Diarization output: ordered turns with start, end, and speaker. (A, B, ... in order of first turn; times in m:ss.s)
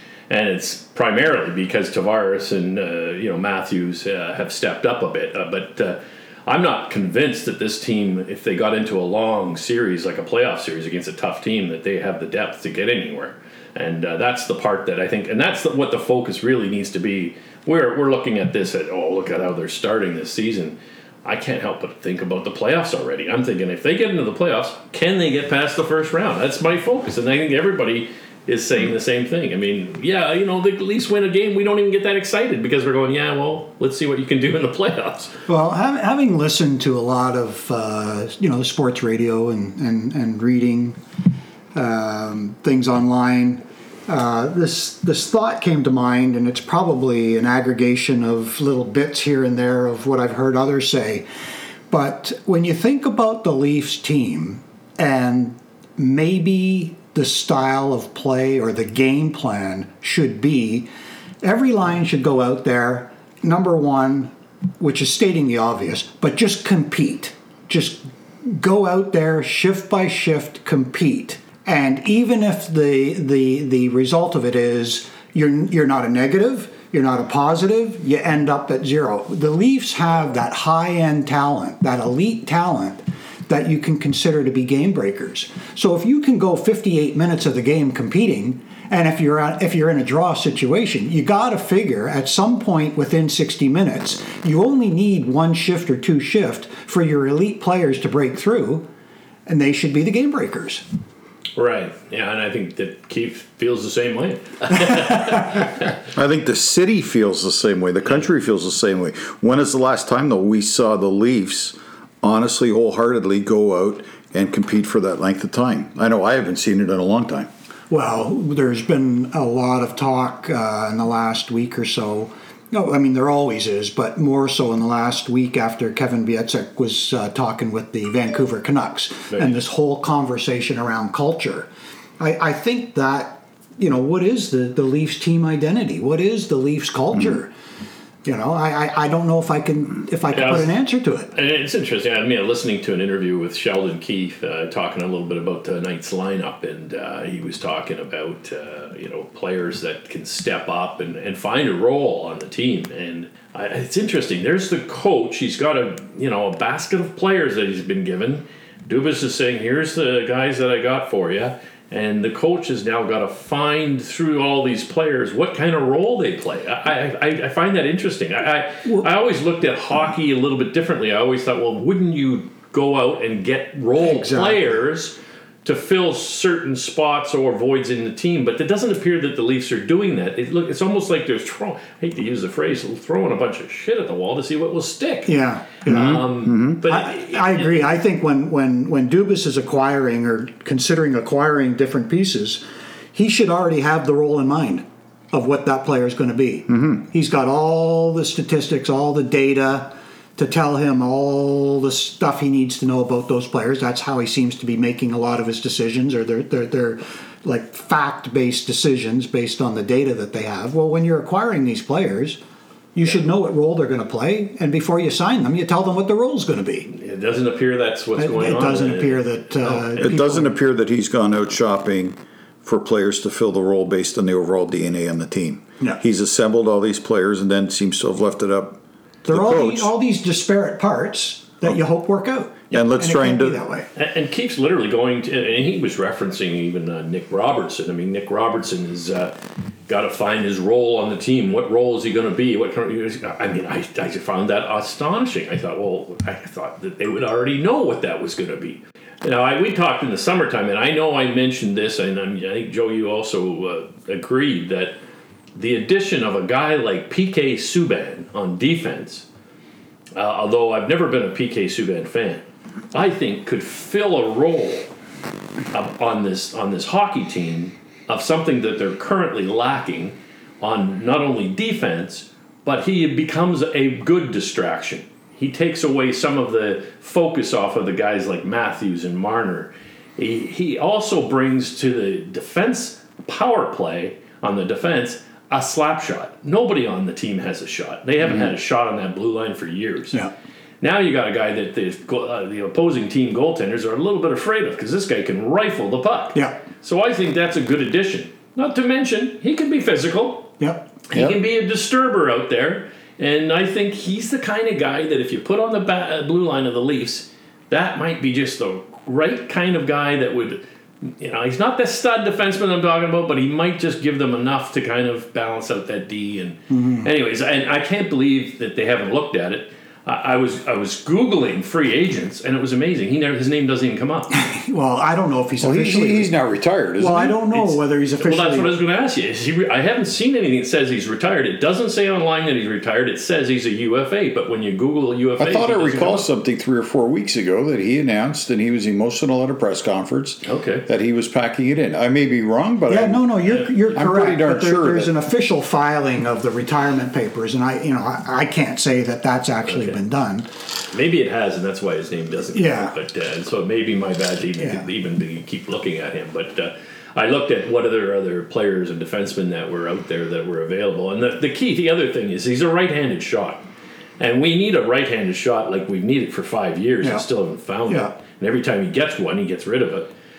0:00.3-0:35.3 A
0:35.5-0:41.0 B
0:41.7-0:51.2 B
0:51.9-1:00.9 B
1:01.4-1:38.9 B
1:39.5-1:40.8 B
1:41.6-1:45.8 A
1:46.1-1:57.5 C
1:57.9-2:11.7 B
2:12.2-2:17.5 B
2:18.2-2:21.3 B
2:20.3-2:20.8 A
2:21.3-3:07.9 A
2:54.0-2:54.8 B
3:05.3-3:12.6 B
3:05.9-3:06.8 C
3:13.1-3:32.4 B
3:16.7-3:17.0 C
3:32.9-3:36.9 B
3:36.9-3:40.2 A
3:38.2-3:40.6 B
3:40.0-3:49.9 C
3:49.2-3:53.9 B
3:52.7-3:53.6 C
3:53.9-3:59.3 A
3:59.9-4:15.0 A
4:15.5-4:19.2 A
4:20.2-4:24.9 A
4:25.7-4:50.2 A
4:50.8-5:00.5 A
4:56.3-4:56.6 B
5:00.6-5:01.0 B
5:01.1-5:24.3 A
5:16.7-5:17.1 B
5:24.3-5:26.3 B
5:25.6-5:27.7 C
5:27.0-5:28.7 B
5:27.5-5:36.3 A
5:35.4-5:45.2 C
5:40.4-5:40.9 A
5:42.9-5:50.5 B
5:43.5-5:43.8 A
5:49.6-5:50.0 A
5:50.9-6:03.6 A
5:52.5-5:52.9 B
5:54.6-5:54.8 B
6:04.2-6:10.1 A
6:07.9-6:08.1 B